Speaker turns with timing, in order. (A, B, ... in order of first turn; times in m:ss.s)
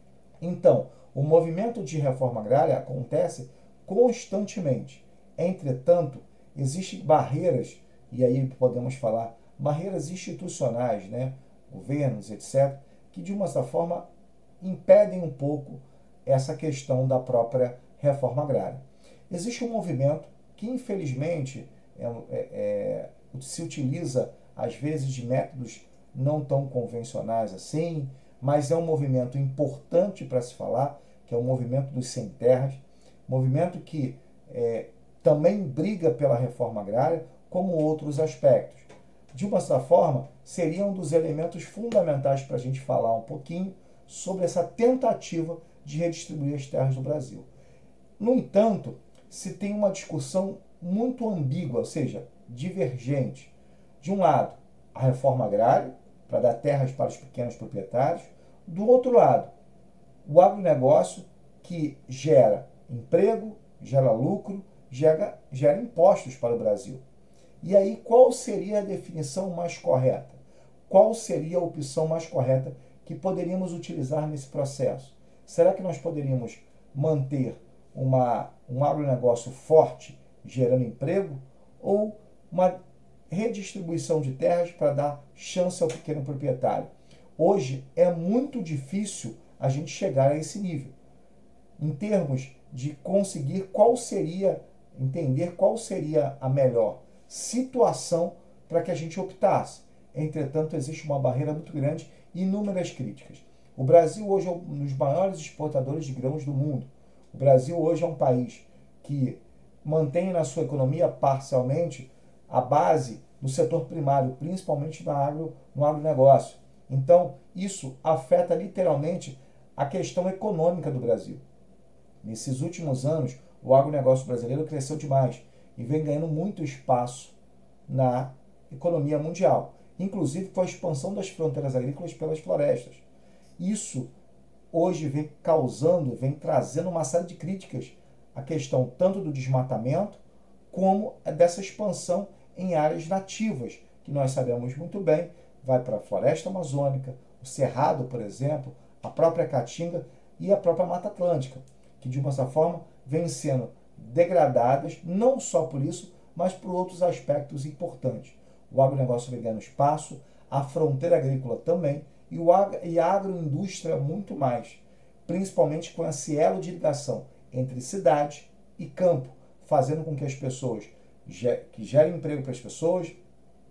0:00.4-0:14.1 A
0:14.6-0:47.5 A
0:48.2-0:59.5 A
1:00.2-1:07.0 A
1:07.6-1:22.8 A
1:23.3-1:30.9 A
1:31.8-2:01.4 A
2:02.2-2:07.3 A
2:07.9-2:13.0 A
2:13.6-2:14.1 A
2:14.7-2:20.2 A
2:20.7-2:53.1 A